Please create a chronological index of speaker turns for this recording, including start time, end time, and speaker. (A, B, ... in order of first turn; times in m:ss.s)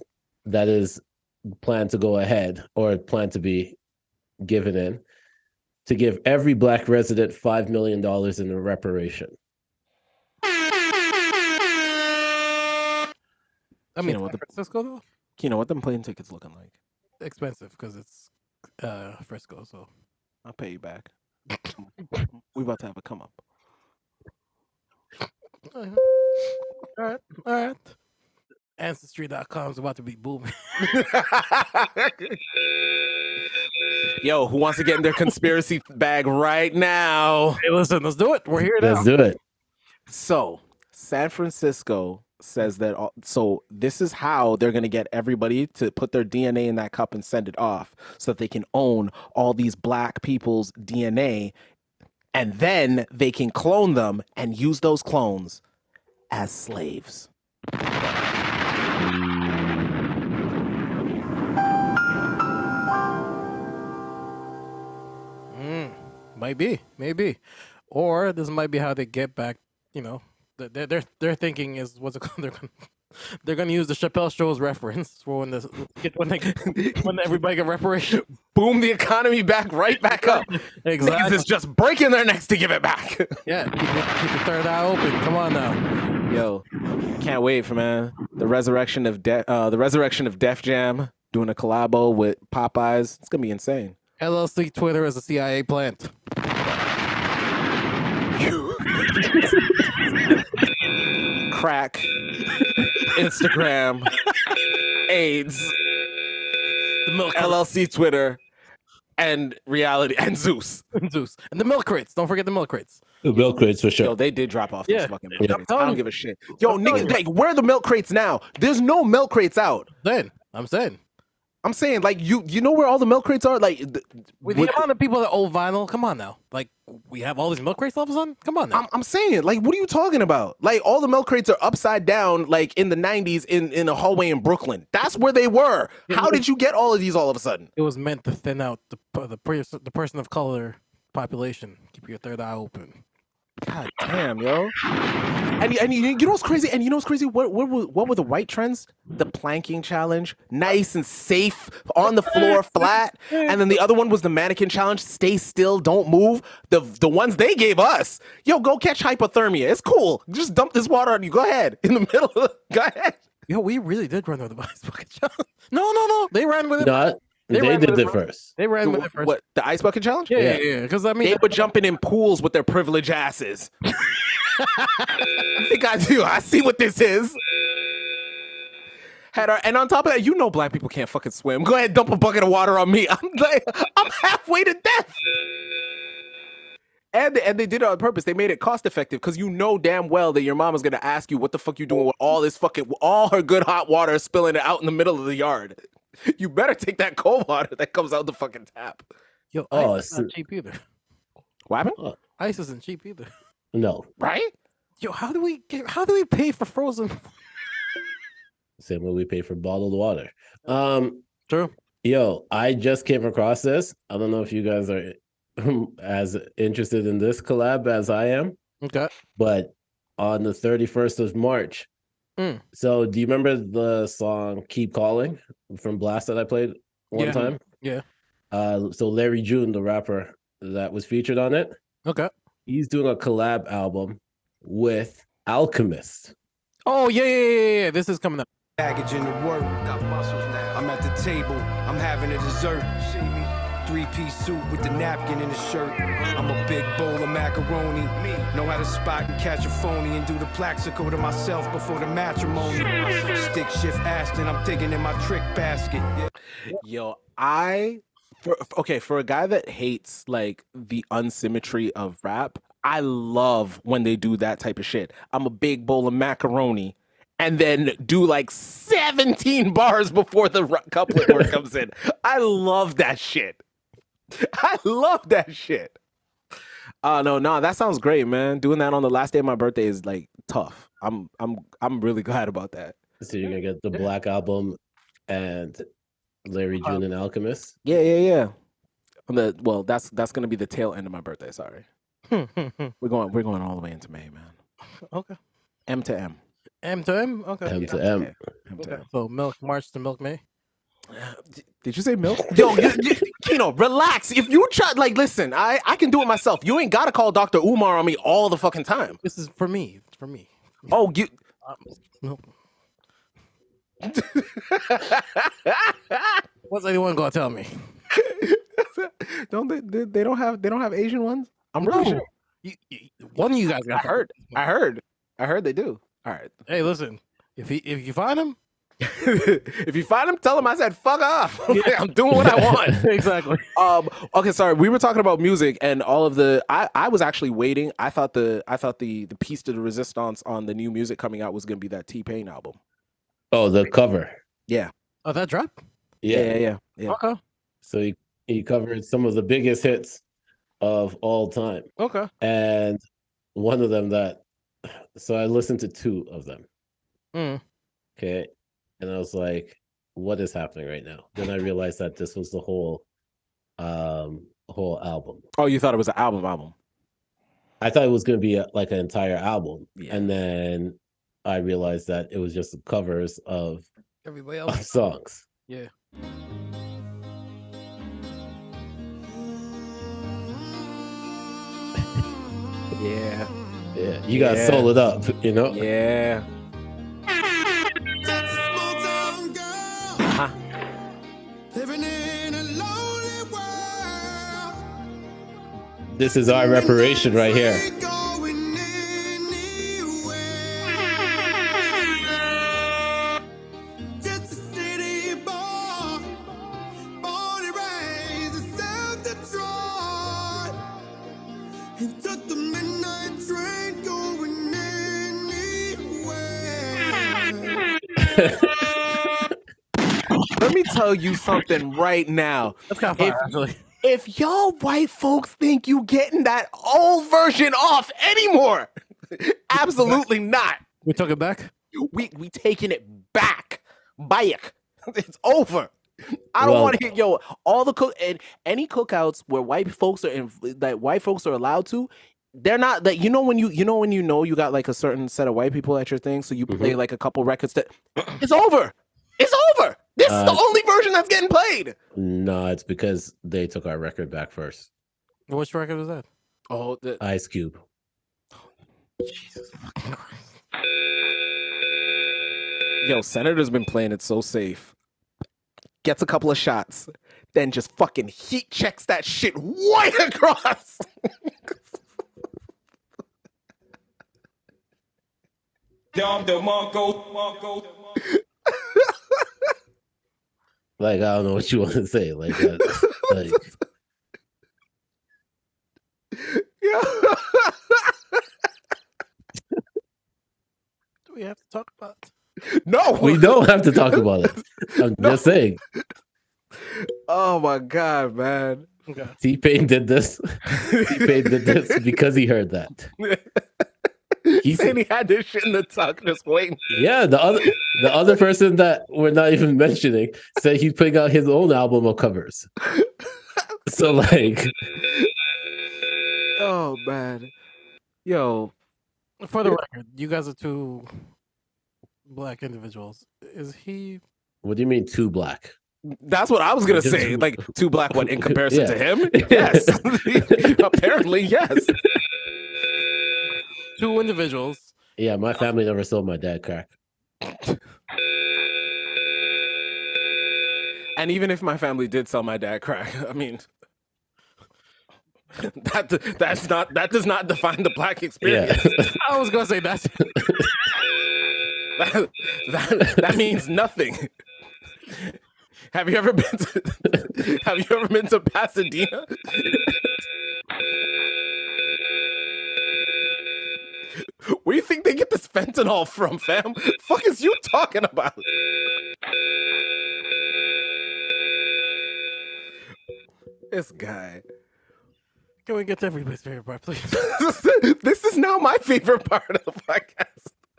0:00.5-0:03.8 A
0:04.4-0:05.0 A
0:05.9-0:09.4 A
0:14.0-0:15.0 B
0:14.0-0:14.4 C
0:15.4-0:16.7 C
0:17.2-0:18.3 B
0:18.8-0:19.9 B
0:20.4-0:21.1 C
0:22.4-0:23.4 C
0:25.7-0:26.0 B
0:27.0-0:27.9 B
0:28.8-0:30.5 B
0:30.8-0:32.4 C
0:34.2-0:37.6 C
0:37.6-0:39.1 B
0:38.8-0:39.4 A
0:40.1-0:51.5 C
0:52.3-0:55.6 C
0:56.3-0:57.3 C
0:59.0-1:00.0 A
1:05.5-1:07.4 B
1:07.9-1:12.7 B
1:13.2-1:18.3 B
1:16.5-1:17.1 C
1:18.5-1:23.4 C
1:20.1-1:21.5 B
1:23.5-1:25.8 B
1:26.3-1:26.6 C
1:27.2-1:34.0 C
1:34.2-1:36.1 B
1:38.4-1:39.6 C
1:41.5-1:42.1 C
1:43.1-1:44.1 C
1:45.1-1:45.8 C
1:47.1-1:47.6 B
1:47.3-1:48.4 C
1:49.2-1:50.8 C
1:51.0-1:53.0 B
1:53.2-1:54.2 A
1:54.0-1:59.9 C
1:54.9-1:56.0 B
1:56.6-1:57.2 B
2:00.0-2:01.0 B
2:01.6-2:04.8 C
2:04.4-2:08.8 B
2:08.7-2:17.7 C
2:16.1-2:16.4 B
2:17.8-2:23.0 B
2:23.6-2:24.7 C
2:25.6-2:43.2 C
2:32.3-2:32.6 B
2:33.3-2:33.6 B
2:43.5-2:47.0 B
2:46.8-2:48.5 A
2:47.5-2:49.4 B
2:48.8-2:50.5 C
2:50.3-2:51.7 B
2:51.2-2:53.7 C
2:54.6-2:55.3 B
2:55.6-2:57.4 C
2:59.3-3:05.2 C
3:07.1-3:19.1 C
3:19.5-3:20.8 B
3:19.7-3:20.3 A
3:21.7-3:22.0 C
3:22.4-3:23.3 B
3:23.7-3:24.1 A
3:24.2-3:24.5 C
3:25.0-3:27.3 B
3:28.8-3:31.2 A
3:32.0-3:38.6 A
3:38.8-3:39.1 B
3:39.4-3:41.9 A
3:42.7-3:47.6 A
3:47.1-3:48.0 B
3:48.5-3:51.7 A
3:52.7-3:56.3 A
3:56.9-3:58.5 B
3:58.8-4:16.1 D
4:16.7-4:33.6 C
4:34.4-4:36.0 C
4:37.0-4:43.0 C
4:43.2-4:45.8 A
4:46.4-4:47.8 A
4:47.8-4:48.5 C
4:49.3-4:51.9 C
4:52.3-4:52.9 B
4:53.0-4:54.6 C
4:55.1-4:55.4 B
4:55.9-4:56.4 C
4:56.8-4:57.8 B
4:57.7-4:58.3 A
4:57.8-4:59.0 C
4:58.8-5:00.4 B
5:01.1-5:09.2 C
5:09.2-5:11.0 B
5:10.9-5:11.3 C
5:11.6-5:12.4 B
5:14.0-5:16.4 C
5:16.7-5:17.7 B
5:18.1-5:22.2 C
5:21.8-5:24.6 B
5:23.9-5:26.6 C
5:26.7-5:28.6 B
5:29.0-5:33.0 C
5:32.6-5:33.7 B
5:33.8-5:42.8 C
5:43.5-5:44.4 A
5:45.2-5:45.8 B
5:46.2-5:46.6 A
5:46.3-5:47.2 C
5:47.1-5:47.4 B
5:47.8-5:50.2 A
5:50.8-5:51.9 A
5:52.0-5:52.3 B
5:52.4-5:53.0 A
5:53.6-5:54.4 A
5:55.1-5:56.7 A
5:57.4-5:57.6 B
5:58.2-5:58.5 A
5:59.0-6:03.0 A
6:03.8-6:05.4 A
6:05.6-6:06.8 C
6:07.8-6:13.9 A
6:10.0-6:10.2 C
6:14.2-6:15.1 B
6:14.7-6:15.5 A
6:23.0-6:23.5 C
6:24.0-6:25.9 A
6:24.3-6:24.9 C
6:25.7-6:26.5 C
6:28.2-6:30.2 E
6:30.2-6:30.6 C
6:31.7-6:34.8 E
6:36.1-6:37.8 A
6:36.5-6:43.1 E
6:44.2-6:46.3 E
6:47.2-6:50.8 E
6:52.0-6:57.8 E
6:58.2-6:58.9 A
7:00.6-7:03.4 C
7:02.9-7:03.8 B
7:04.0-7:10.8 C
7:11.0-7:11.7 B
7:12.0-7:15.9 C
7:16.5-7:32.0 C
7:16.6-7:17.0 A
7:26.7-7:27.0 A
7:30.3-7:30.6 A
7:32.2-7:34.9 A
7:35.5-7:36.3 B
7:36.7-7:37.2 C
7:37.2-7:37.8 A
7:39.2-7:40.5 B
7:43.0-7:44.9 C
7:46.0-7:51.0 C
7:56.1-7:58.0 E
8:01.0-8:03.7 A
8:02.8-8:03.7 C
8:06.3-8:08.4 C
8:11.3-8:12.3 B
8:12.7-8:15.5 C
8:13.2-8:15.8 A
8:16.8-8:18.9 C
8:19.1-8:19.4 B
8:19.4-8:20.4 A
8:20.7-8:22.0 C
8:21.0-8:23.1 A
8:23.2-8:23.8 C
8:24.4-8:26.9 C
8:24.6-8:25.0 A
8:26.9-8:32.7 A
8:33.9-8:34.7 A
8:36.6-8:37.5 C
8:38.2-8:38.7 C
8:39.4-8:41.1 B
8:42.3-8:44.2 B
8:44.6-8:45.7 A
8:46.1-8:51.9 C
8:46.9-8:50.8 A
8:54.0-8:54.9 B
8:55.2-8:56.9 A
9:01.2-9:03.7 C
9:05.6-9:08.9 C
9:08.4-9:09.2 A
9:09.2-9:10.7 B
9:12.0-9:14.3 C
9:15.1-9:15.4 C
9:15.9-9:19.8 C
9:24.5-9:28.5 C
9:33.7-9:34.4 C
9:35.7-9:37.4 B
9:37.2-9:40.5 C